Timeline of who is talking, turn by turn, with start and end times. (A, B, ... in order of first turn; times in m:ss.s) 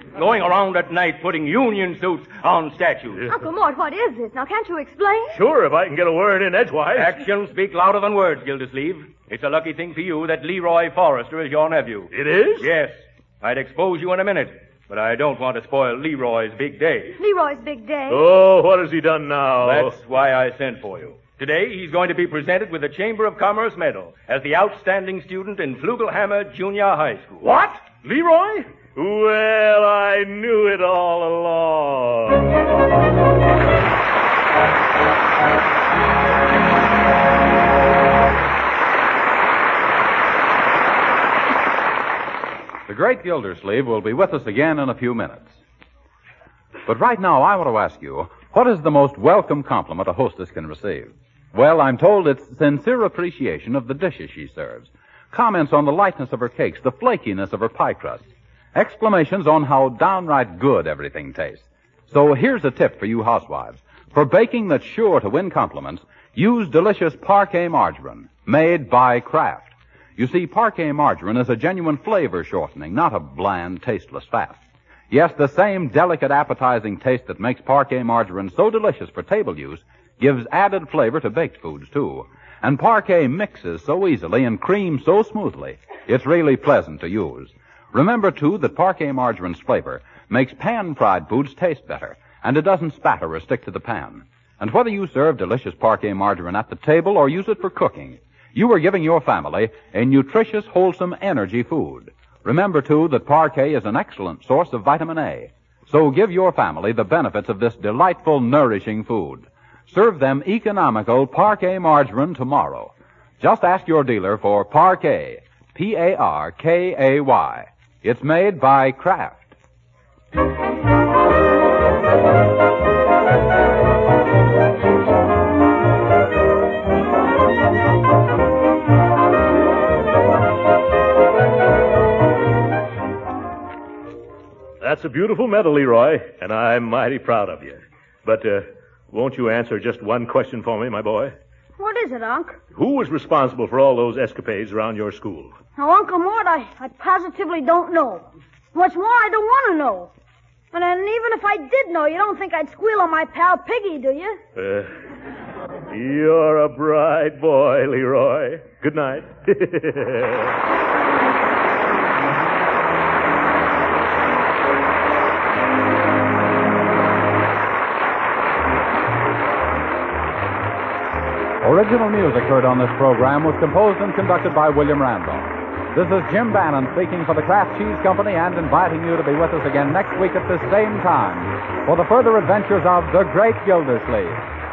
0:00.1-0:03.3 A
0:03.3-0:05.4 B
0:05.3-0:07.2 C
0:07.0-0:17.2 A
0:12.1-0:12.7 C
0:17.2-0:18.2 B
0:18.1-0:20.0 C
0:19.6-0:27.5 A
0:27.4-0:32.5 C
0:42.9-0:45.6 D
0:46.9-1:14.6 D
1:15.1-1:59.5 D
2:14.8-2:21.3 C
2:21.8-2:22.6 E
2:22.8-2:25.5 C
2:25.8-2:30.1 E
2:30.7-2:34.4 E
2:34.6-2:34.9 C
2:35.9-2:40.5 C
2:51.6-3:04.4 D